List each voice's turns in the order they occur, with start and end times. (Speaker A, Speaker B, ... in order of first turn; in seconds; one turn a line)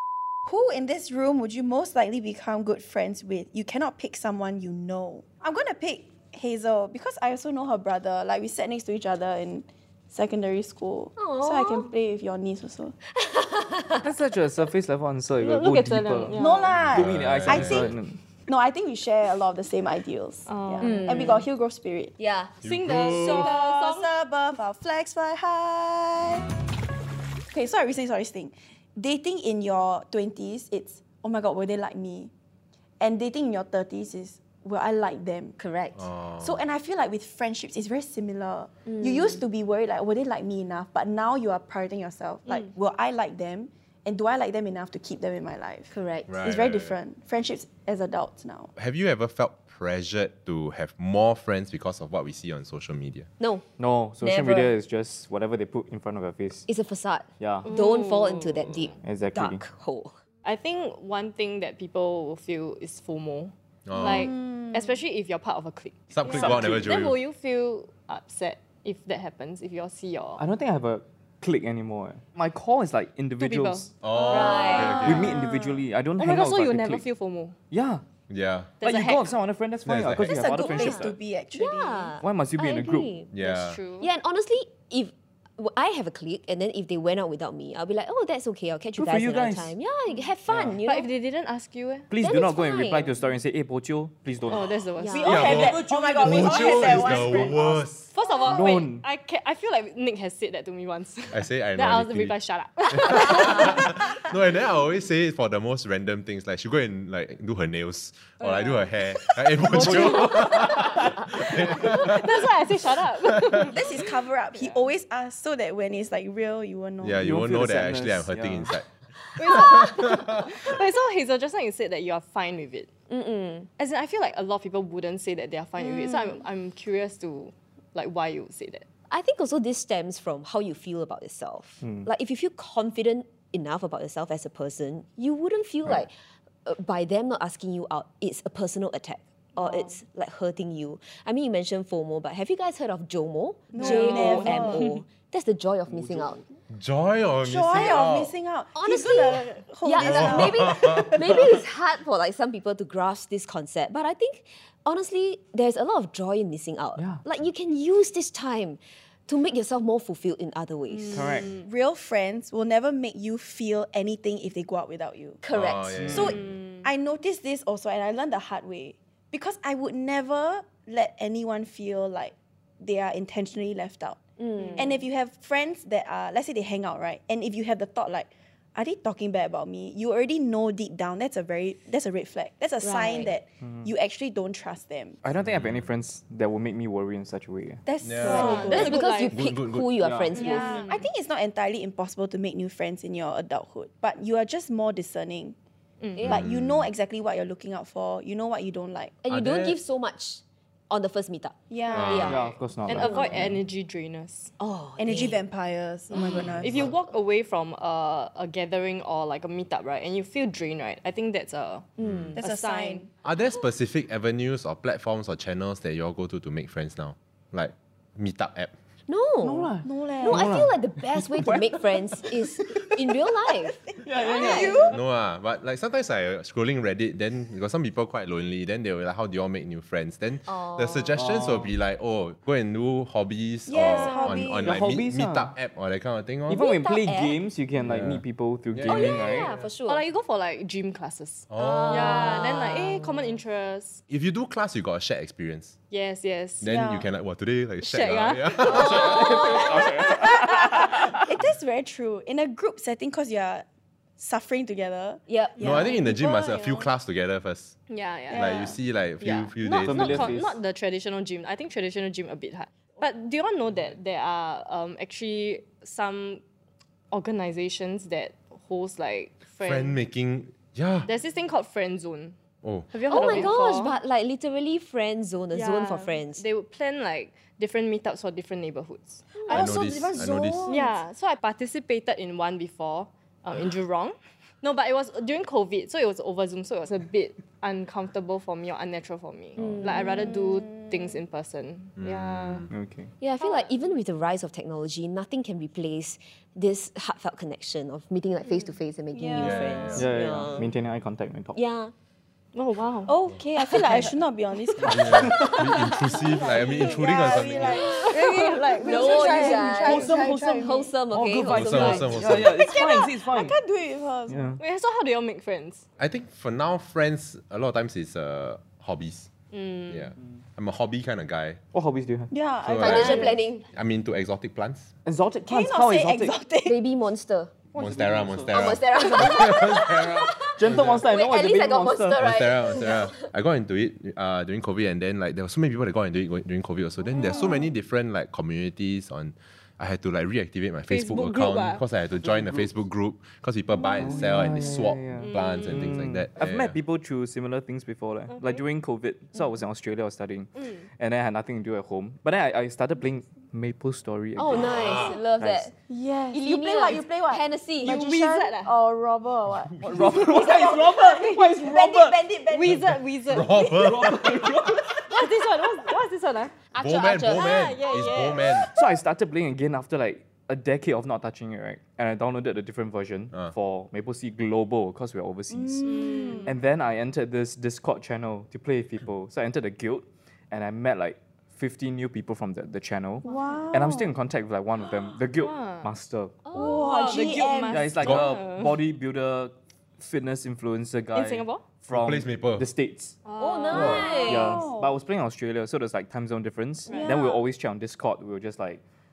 Speaker A: 0.5-12.9
Speaker B: 11.2-11.9
Speaker B: 13.1-14.1
Speaker C: 14.0-18.2
Speaker D: 15.4-16.7
Speaker A: 16.3-17.9
Speaker E: 16.7-17.9
Speaker A: 18.5-22.1
Speaker D: 20.5-21.4
Speaker B: 20.8-21.4
Speaker B: 22.2-22.5
Speaker E: 22.6-23.5
Speaker D: 22.6-24.1
Speaker A: 23.0-26.5
Speaker A: 27.5-32.3
Speaker A: 33.0-35.5
Speaker B: 35.6-36.0
Speaker E: 36.0-36.6
Speaker A: 36.4-45.9
Speaker B: 38.9-39.4
Speaker B: 45.9-46.3
Speaker E: 46.3-47.0
Speaker A: 46.4-48.7
Speaker E: 48.8-53.3
Speaker B: 53.4-53.7
Speaker C: 53.8-56.7
Speaker B: 54.2-54.7
Speaker B: 56.7-60.1
Speaker C: 57.4-57.7
Speaker D: 57.7-58.9
Speaker C: 59.0-59.6
Speaker D: 60.4-70.4
Speaker E: 63.9-64.3
Speaker A: 64.1-64.7
Speaker E: 66.1-67.2
Speaker C: 66.3-66.8
Speaker C: 70.4-73.9
Speaker D: 73.4-75.5
Speaker E: 74.0-75.4
Speaker B: 74.3-75.2
Speaker A: 74.5-75.7
Speaker C: 75.0-77.0
Speaker D: 76.2-77.5
Speaker C: 77.7-78.0
Speaker E: 78.3-78.8
Speaker D: 78.8-79.3
Speaker C: 78.8-81.2
Speaker E: 79.8-80.4
Speaker A: 80.2-82.1
Speaker B: 80.5-83.3
Speaker C: 82.2-83.1
Speaker E: 83.3-83.8
Speaker D: 83.4-84.1
Speaker B: 84.0-91.1
Speaker C: 89.0-89.7
Speaker C: 90.5-90.8
Speaker D: 90.8-92.1
Speaker C: 92.1-94.7
Speaker B: 92.2-93.1
Speaker D: 94.5-95.5
Speaker B: 95.0-95.6
Speaker A: 95.1-97.9
Speaker E: 95.2-98.1
Speaker C: 95.3-97.7
Speaker D: 98.1-104.2
Speaker C: 98.5-99.0
Speaker E: 101.3-102.3
Speaker E: 102.9-112.5
Speaker D: 108.4-109.0
Speaker D: 109.6-114.0
Speaker C: 109.7-111.1
Speaker A: 113.6-117.2
Speaker E: 117.0-118.9
Speaker C: 117.2-118.7
Speaker D: 119.4-122.9
Speaker E: 119.4-120.7
Speaker B: 123.1-123.7
Speaker D: 123.8-128.8
Speaker B: 126.0-126.3
Speaker B: 129.1-136.1
Speaker C: 131.8-132.1
Speaker B: 136.6-146.4
Speaker A: 143.7-144.8
Speaker D: 143.8-144.8
Speaker C: 145.9-146.3
Speaker E: 146.7-148.3
Speaker A: 147.4-151.4
Speaker B: 148.7-161.5
Speaker E: 150.0-151.4
Speaker C: 156.9-157.2
Speaker D: 160.9-161.6
Speaker C: 161.1-161.5
Speaker A: 161.5-165.4
Speaker B: 165.4-166.3
Speaker E: 165.5-166.4
Speaker A: 166.1-174.2
Speaker D: 166.4-166.8
Speaker B: 174.4-175.0
Speaker A: 174.8-185.2
Speaker B: 182.8-183.3
Speaker C: 183.6-183.9
Speaker C: 185.2-187.8
Speaker E: 185.4-185.8
Speaker A: 187.8-189.0
Speaker E: 188.0-190.0
Speaker D: 188.2-189.3
Speaker B: 188.2-190.8
Speaker C: 190.0-190.3
Speaker D: 190.3-191.0
Speaker A: 190.3-195.5
Speaker B: 196.2-196.4
Speaker E: 196.2-196.9
Speaker A: 196.2-199.1
Speaker B: 199.2-202.4
Speaker E: 199.3-199.8
Speaker A: 201.7-202.4
Speaker D: 201.9-204.5
Speaker E: 201.9-202.4
Speaker C: 202.1-203.6
Speaker B: 203.0-203.3
Speaker B: 204.6-205.4
Speaker A: 205.0-206.9
Speaker D: 206.1-213.0
Speaker B: 212.0-212.4
Speaker E: 212.0-212.3
Speaker A: 212.3-213.1
Speaker E: 213.2-218.7
Speaker B: 219.1-224.9
Speaker C: 219.4-223.0
Speaker A: 219.8-220.6
Speaker C: 224.0-224.9
Speaker A: 224.1-225.0
Speaker E: 224.9-236.6
Speaker B: 230.5-231.2
Speaker C: 231.2-231.7
Speaker A: 233.7-234.8
Speaker D: 233.7-234.4
Speaker C: 234.6-235.5
Speaker C: 236.5-239.5
Speaker B: 236.5-237.4
Speaker E: 237.8-239.7
Speaker B: 238.8-240.0
Speaker D: 239.9-244.0
Speaker E: 241.5-242.3
Speaker B: 241.6-243.1
Speaker E: 244.1-245.7
Speaker D: 245.9-246.7
Speaker E: 246.6-249.4
Speaker A: 246.7-247.1
Speaker D: 247.8-249.3
Speaker C: 248.7-251.2
Speaker B: 248.8-249.8
Speaker A: 249.2-253.6
Speaker A: 254.2-256.9
Speaker B: 255.3-255.9
Speaker E: 255.6-257.8
Speaker D: 257.9-266.4
Speaker A: 258.3-258.8
Speaker E: 258.3-260.3
Speaker C: 259.7-260.6
Speaker D: 267.1-270.0
Speaker E: 269.6-271.1
Speaker D: 271.0-272.4
Speaker E: 272.6-273.5
Speaker D: 272.9-273.9
Speaker B: 273.1-276.4
Speaker D: 275.5-292.7
Speaker B: 279.4-279.7
Speaker E: 279.5-280.7
Speaker A: 279.5-281.0
Speaker C: 289.6-289.9
Speaker B: 289.6-290.2
Speaker A: 290.0-290.9
Speaker E: 292.0-292.7
Speaker C: 292.7-293.1
Speaker B: 293.2-300.7
Speaker D: 293.4-293.7
Speaker A: 299.1-299.9
Speaker E: 299.4-300.1
Speaker C: 299.9-301.6
Speaker B: 301.5-301.9
Speaker D: 302.5-303.1
Speaker A: 303.1-310.9
Speaker B: 303.6-304.1
Speaker E: 304.8-308.0
Speaker B: 304.9-305.9
Speaker C: 305.2-305.7
Speaker D: 307.2-310.1
Speaker B: 307.7-312.2
Speaker C: 309.4-313.6
Speaker E: 311.5-312.6
Speaker A: 312.2-314.5
Speaker C: 314.3-314.6
Speaker D: 314.6-315.8
Speaker E: 316.0-319.3
Speaker D: 319.5-320.1
Speaker E: 319.9-321.6
Speaker C: 321.7-322.3
Speaker A: 322.3-323.4
Speaker E: 322.6-324.9
Speaker B: 322.8-323.6
Speaker D: 323.1-323.4
Speaker C: 325.0-326.4
Speaker A: 325.5-326.8
Speaker B: 326.6-327.5
Speaker C: 327.7-329.4
Speaker E: 327.7-331.1
Speaker B: 328.5-333.3
Speaker C: 330.6-332.2
Speaker E: 332.1-346.8
Speaker D: 337.2-337.6
Speaker D: 340.9-341.8
Speaker C: 342.2-342.7
Speaker C: 343.9-355.7
Speaker D: 345.2-345.9
Speaker D: 348.3-348.6
Speaker B: 354.4-355.7
Speaker E: 354.7-355.1
Speaker A: 355.9-364.3
Speaker B: 356.3-358.0
Speaker D: 357.8-358.8
Speaker C: 359.8-362.2
Speaker D: 362.5-363.5
Speaker E: 363.3-364.7
Speaker C: 363.7-365.1
Speaker D: 365.1-366.5
Speaker B: 366.7-367.6
Speaker E: 366.8-368.7
Speaker D: 367.3-368.6
Speaker A: 368.4-369.0
Speaker C: 368.7-386.4
Speaker A: 375.5-376.4
Speaker D: 375.8-376.5
Speaker A: 383.2-384.1
Speaker D: 385.4-385.9
Speaker B: 386.4-387.3
Speaker A: 386.5-387.9
Speaker D: 386.8-388.8
Speaker C: 387.1-393.2
Speaker E: 388.0-388.4
Speaker D: 391.1-391.7
Speaker E: 391.9-392.7
Speaker D: 393.2-394.3
Speaker B: 393.4-394.6
Speaker E: 393.7-394.1
Speaker A: 393.8-395.0
Speaker C: 394.2-398.8
Speaker D: 396.9-397.1
Speaker A: 396.9-397.4